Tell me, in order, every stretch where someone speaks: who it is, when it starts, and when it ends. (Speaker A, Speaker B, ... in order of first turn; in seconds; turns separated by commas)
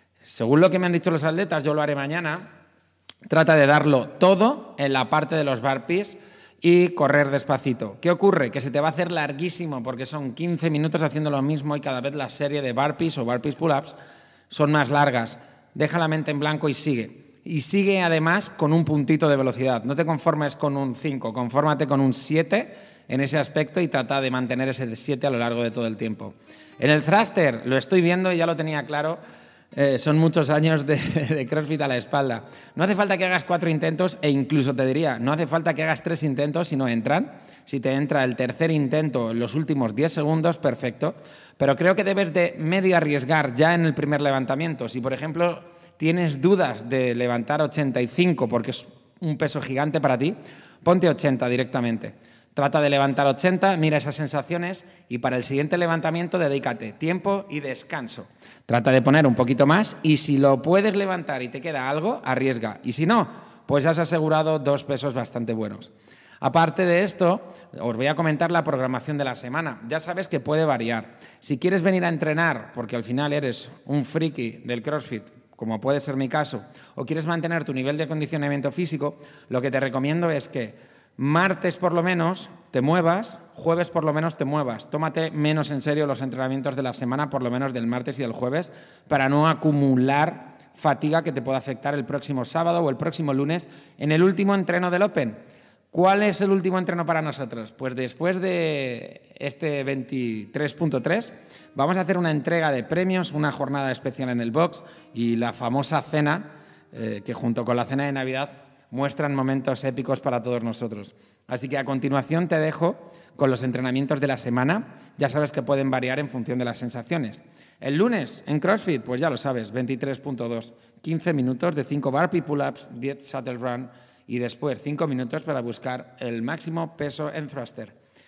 Speaker A: 0.3-2.5, Speaker A: 3.3-14.0, Speaker A: 14.5-29.2, Speaker A: 29.7-95.4, Speaker A: 95.9-128.0